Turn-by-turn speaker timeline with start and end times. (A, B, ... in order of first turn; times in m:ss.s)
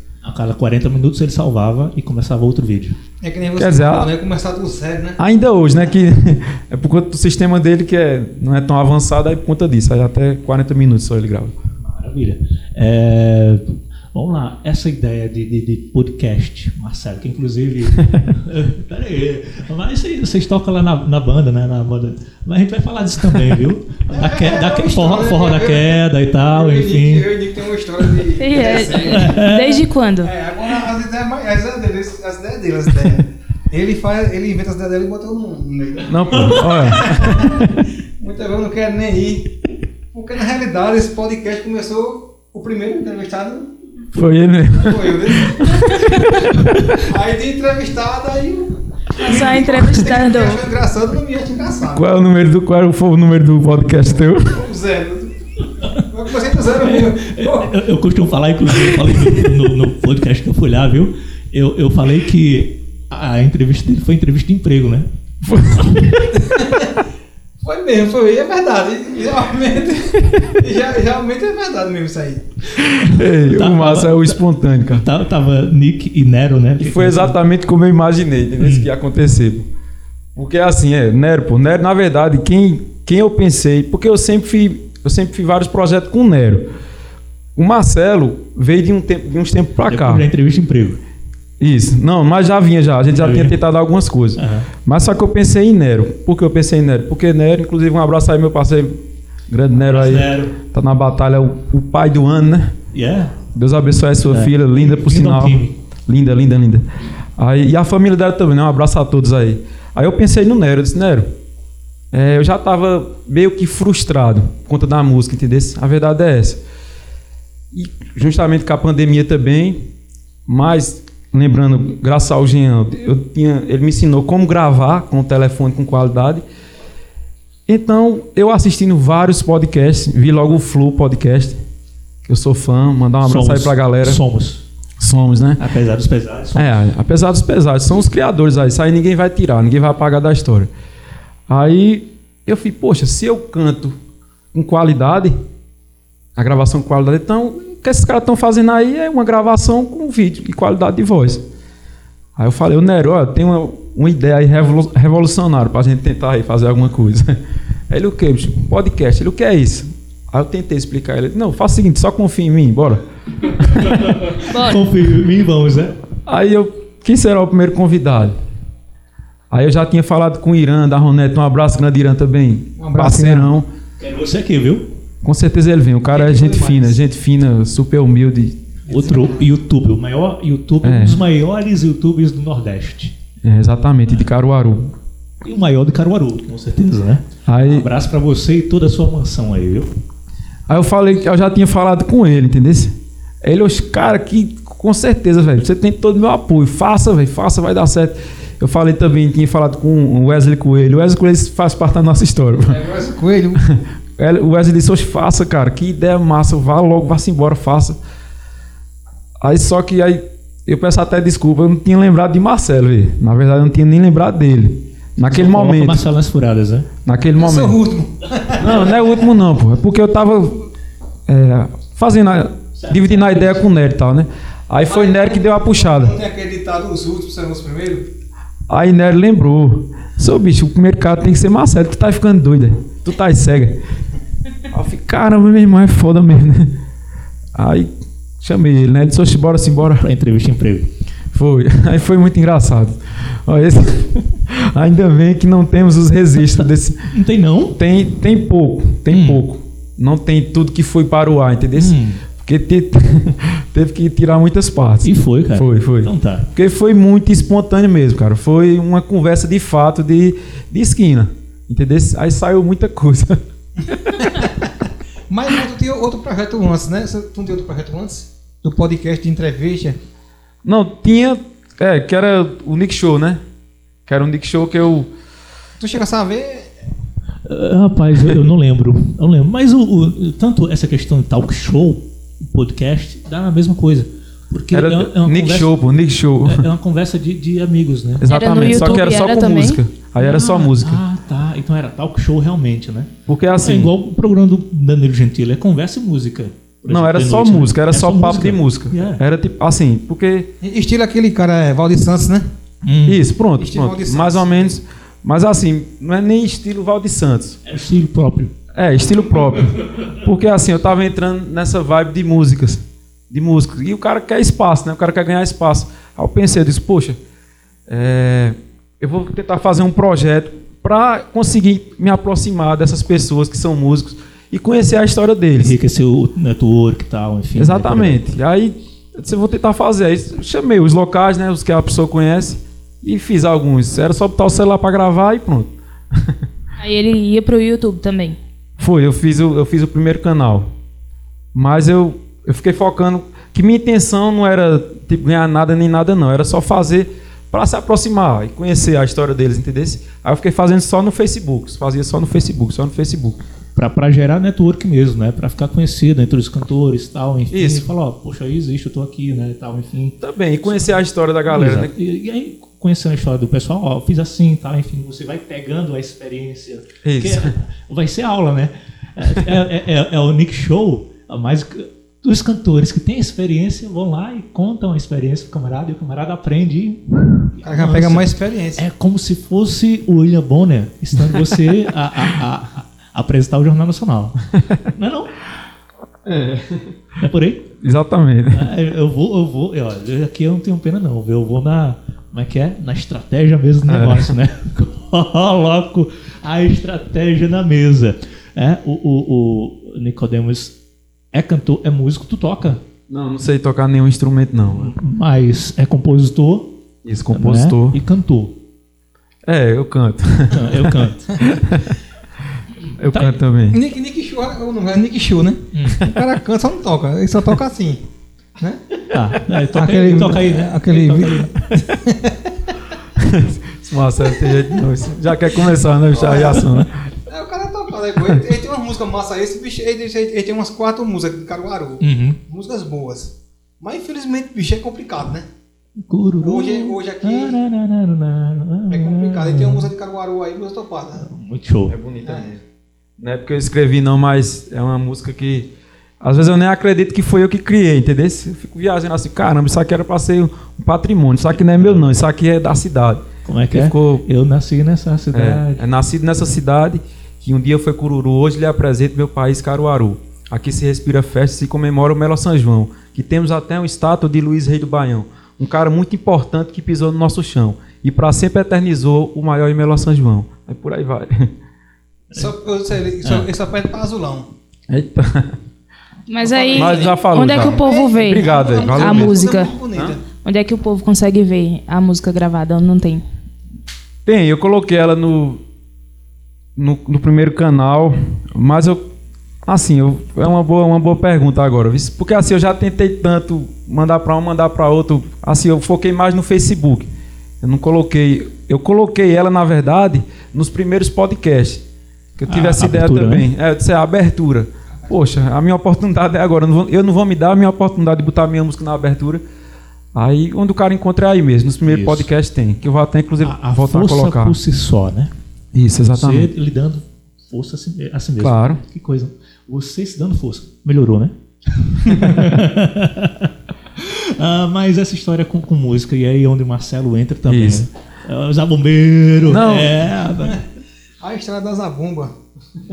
0:00.2-0:03.0 A
0:03.2-0:05.2 B
0:03.6-0:04.1 C
0:05.2-0:11.5 C
0:11.8-0:27.3 A
0:17.9-0:18.2 C
0:24.1-0:29.5 B
0:28.4-0:30.3 D
0:28.9-0:29.8 A
0:30.2-0:39.6 B
0:36.1-0:37.6 C
0:36.3-0:36.7 A
0:40.1-0:43.7 B
0:44.1-0:46.9 C
0:44.7-0:52.1 B
0:49.2-0:50.7 D
0:51.9-0:54.6 C
0:54.4-0:57.7 B
0:56.7-1:05.1 A
1:05.4-1:06.6 C
1:06.4-1:06.9 B
1:07.6-1:12.4 B
1:10.2-1:10.6 C
1:12.8-1:15.1 C
1:12.8-1:17.4 A
1:16.8-1:19.7 C
1:18.6-1:18.9 A
1:20.4-1:26.7 C
1:27.6-1:30.2 C
1:29.9-1:31.0 A
1:31.6-1:42.8 C
1:33.1-1:33.6 A
1:34.4-1:34.7 A
1:39.8-1:40.6 A
1:42.9-1:43.4 A
1:43.5-1:46.8 C
1:44.3-1:45.8 A
1:47.4-1:51.3 C
1:52.1-1:56.6 C
1:57.7-1:59.8 C
2:00.5-2:06.4 C
2:07.7-2:11.6 C
2:12.3-2:14.2 C
2:13.2-2:14.7 A
2:15.0-2:15.6 C
2:15.6-2:16.8 A
2:16.6-2:20.7 C
2:21.5-2:24.0 C
2:24.5-2:25.4 C
2:26.4-2:31.4 C
2:32.4-2:44.3 C
2:43.7-2:46.0 A
2:44.5-2:44.8 D
2:46.3-2:48.4 C
2:49.5-2:53.7 C
2:52.8-2:53.6 B
2:54.0-2:54.9 A
2:55.2-2:58.6 C
2:56.1-2:57.0 B
2:58.9-2:59.5 B
2:58.9-3:03.2 A
3:00.8-3:01.2 C
3:03.4-3:04.9 C
3:05.4-3:09.9 A
3:07.5-3:07.9 C
3:10.7-3:22.8 C
3:22.7-3:23.6 B
3:23.6-3:28.0 C
3:29.4-3:36.0 C
3:35.3-3:36.9 A
3:37.0-3:37.8 C
3:37.4-3:39.3 B
3:38.6-3:40.7 C
3:41.3-3:46.2 C
3:42.8-3:43.7 A
3:44.9-3:48.1 B
3:48.7-3:53.8 C
3:54.7-3:56.8 C
3:57.5-4:00.1 C
4:00.0-4:00.9 A
4:01.3-4:07.1 C
4:06.4-4:07.8 A
4:07.7-4:23.4 C
4:09.1-4:09.4 A
4:11.8-4:12.2 A
4:15.0-4:16.5 A
4:24.1-4:24.7 B
4:25.3-4:30.0 B
4:30.6-4:33.4 C
4:34.1-4:35.1 C
4:35.8-4:36.7 B
4:37.4-4:45.8 A
4:44.7-4:46.7 C
4:46.4-4:49.0 A
4:48.2-4:51.0 C
4:48.3-4:49.8 D
4:50.2-4:59.2 A
4:53.3-4:53.9 C
4:56.9-5:00.5 C
5:00.6-5:02.5 B
5:02.8-5:03.2 A
5:03.1-5:07.6 C
5:03.6-5:04.8 B
5:07.6-5:08.5 A
5:08.7-5:17.2 C
5:17.9-5:25.8 C
5:25.6-5:28.2 A
5:27.6-5:36.4 C
5:36.8-5:38.4 D
5:38.8-5:40.7 C
5:41.5-5:53.4 C
5:53.8-6:01.0 A
5:57.5-5:57.9 C
6:00.2-6:01.9 C
6:01.5-6:25.4 A
6:07.0-6:07.6 C
6:17.6-6:18.8 B
6:26.2-6:27.0 C
6:27.2-6:27.7 A
6:27.8-6:28.7 C
6:28.5-6:40.8 A
6:33.9-6:34.4 C
6:41.3-6:42.8 A
6:43.1-6:45.0 C
6:44.7-6:46.8 A
6:47.0-6:48.0 C
6:47.3-6:48.6 A
6:49.5-6:51.9 C
6:50.5-6:51.4 A
6:53.0-6:53.8 C
6:53.0-6:53.4 A
6:53.7-6:58.0 B
6:55.7-6:56.1 A
6:58.6-7:02.6 B
6:59.1-7:01.6 A
7:03.2-7:07.0 C
7:04.3-7:04.6 B
7:06.1-7:06.7 B
7:07.3-7:15.5 B
7:12.0-7:12.4 A
7:16.0-7:19.9 A
7:16.4-7:17.6 B
7:18.9-7:21.3 B
7:21.2-7:22.0 A
7:21.9-7:22.6 C
7:22.2-7:22.5 B
7:23.2-7:25.7 C
7:26.2-7:34.2 C
7:33.4-7:35.8 A
7:35.3-7:51.5 C
7:52.3-7:54.5 B
7:53.2-7:53.5 A
7:54.9-7:55.6 C
7:56.3-7:59.8 D
7:56.4-8:00.2 B
7:56.7-8:00.2 C
8:00.4-8:03.2 D
8:04.3-8:05.6 C
8:06.8-8:09.1 C
8:09.6-8:17.1 C
8:17.6-8:21.8 C
8:22.4-8:29.4 C
8:22.5-8:23.5 A
8:30.1-8:34.6 C
8:31.9-8:32.3 A
8:33.4-8:35.3 A
8:35.7-8:36.5 C
8:36.1-8:50.6 A
8:38.4-8:38.8 C
8:47.5-8:47.9 C
8:49.5-8:50.0 C
8:51.2-8:52.3 B